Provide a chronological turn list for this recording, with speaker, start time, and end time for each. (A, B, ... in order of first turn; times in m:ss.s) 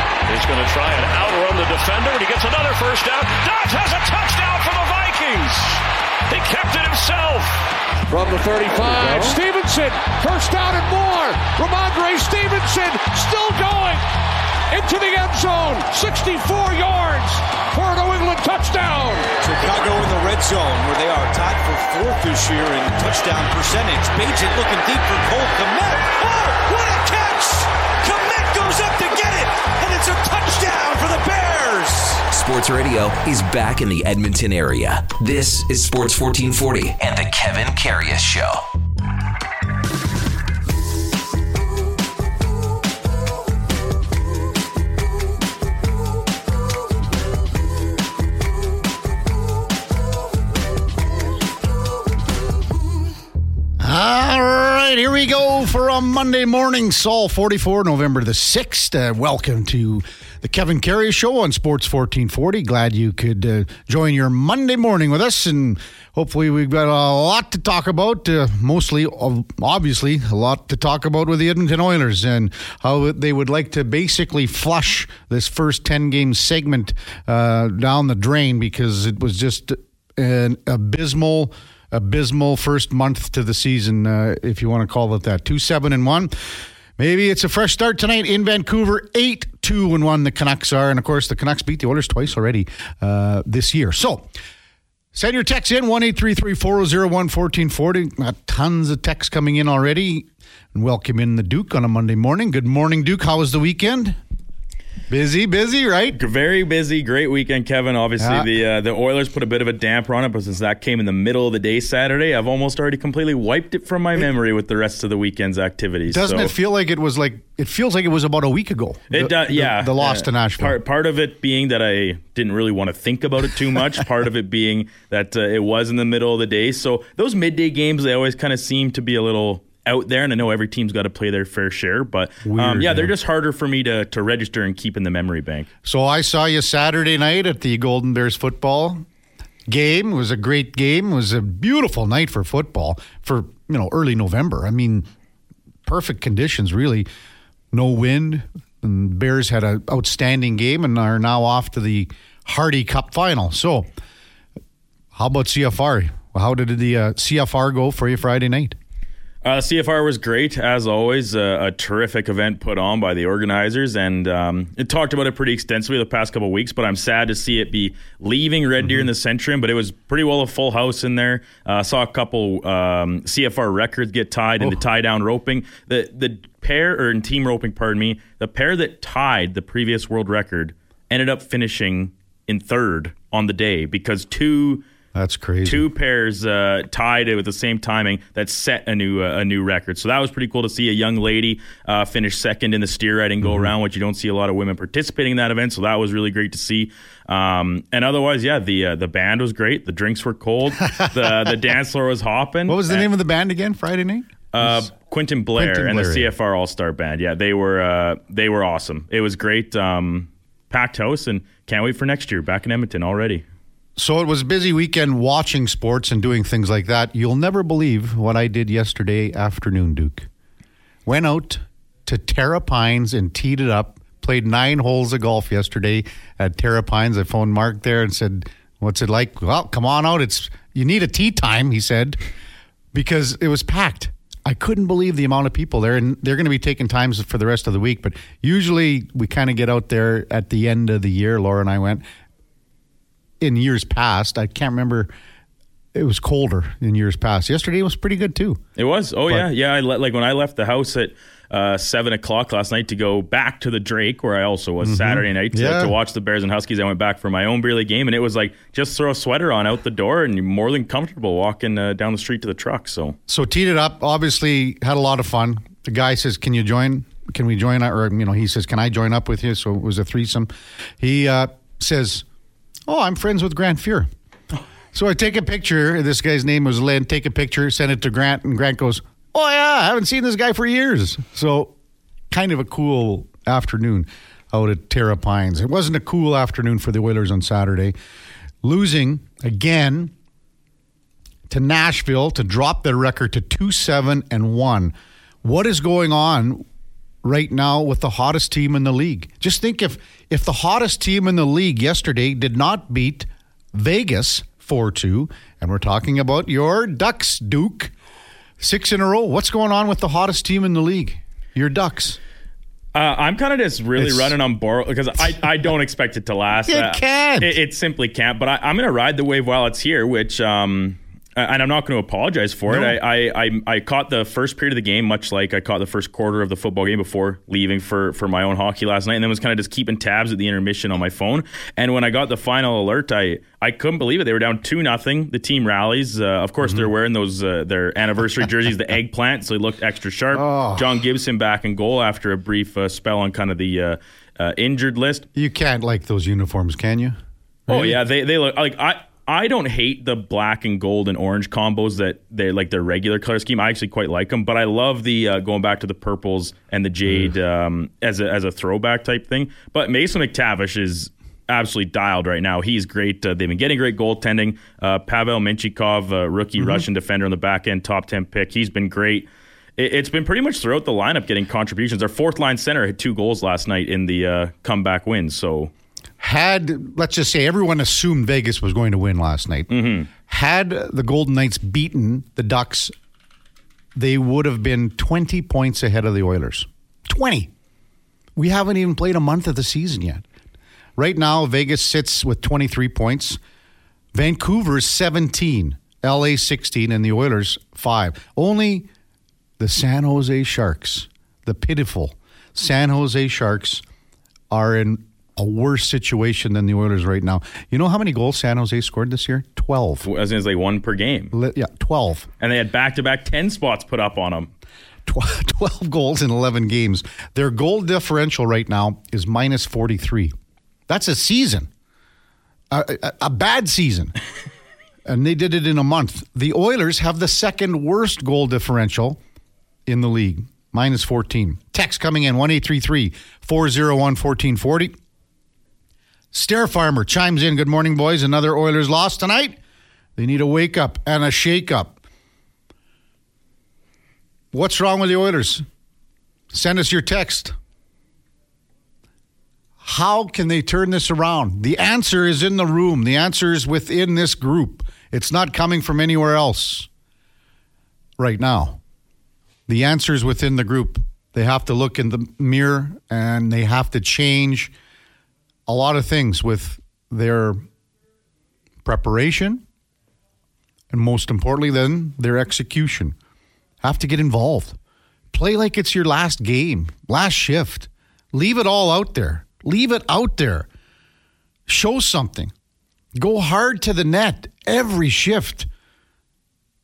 0:00.3-0:07.7 A
0:08.1-0:14.0 B
0:14.7-0:19.3 B
0:19.4-0:32.2 C
0:32.3-0:38.6 D
0:53.8-1:26.4 E
1:27.0-1:34.3 E
1:35.1-1:44.2 E
1:45.1-1:46.2 E
1:46.2-1:56.5 F
1:48.2-1:48.5 E
1:56.1-2:00.8 E
1:59.1-2:15.7 F
2:12.4-2:13.1 E
2:15.8-2:19.0 E
2:19.7-2:25.1 E
2:25.9-2:27.1 E
2:27.7-2:33.9 E
2:35.1-2:38.8 E
2:39.4-3:04.8 F
2:48.8-2:49.1 E
3:05.2-3:05.9 E
3:05.6-3:23.1 F
3:13.4-3:13.7 E
3:20.9-3:21.3 E
3:22.7-3:24.8 E
3:24.5-3:33.4 F
3:25.5-3:26.3 E
3:34.0-3:40.3 E
3:41.1-3:52.2 E
3:52.9-4:02.0 E
4:03.4-4:05.1 E
4:05.9-4:08.6 E
4:08.8-4:23.2 F
4:14.8-4:15.9 E
4:23.3-4:32.2 E
4:32.9-4:34.1 E
4:34.9-4:41.7 E
4:42.3-4:47.9 E
4:48.6-4:50.1 E
4:51.5-4:56.7 E
4:57.2-5:07.9 E
5:08.6-5:12.2 E
5:12.9-5:45.2 F
5:14.0-5:14.3 E
5:16.7-5:17.5 E
5:22.7-5:23.0 E
5:36.6-5:36.9 E
5:40.3-5:40.9 E
5:45.4-5:48.0 E
5:47.7-6:15.7 F
6:16.2-6:22.9 E
6:19.7-6:20.1 F
6:24.0-6:27.5 E
6:28.4-6:30.2 E
6:31.0-6:33.4 E
6:34.1-6:38.9 E
6:39.6-6:43.8 E
6:44.5-6:50.1 E
6:50.0-6:51.3 F
6:51.3-6:52.3 E
6:52.4-6:54.5 F
6:55.1-7:00.3 E
7:00.9-7:01.7 E
7:02.7-7:04.1 E
7:05.0-7:09.2 E
7:09.9-7:15.0 E
7:16.3-7:19.6 E
7:20.2-7:22.0 E
7:24.5-7:25.6 E
7:26.5-7:27.6 E
7:29.8-7:36.9 E
7:38.2-7:38.8 E
7:39.7-7:44.7 E
7:45.7-7:47.6 E
7:48.8-7:49.6 E
7:50.9-7:53.2 E
7:53.8-7:54.8 E
7:55.3-8:00.7 E
8:01.7-8:02.5 E
8:03.2-8:05.7 E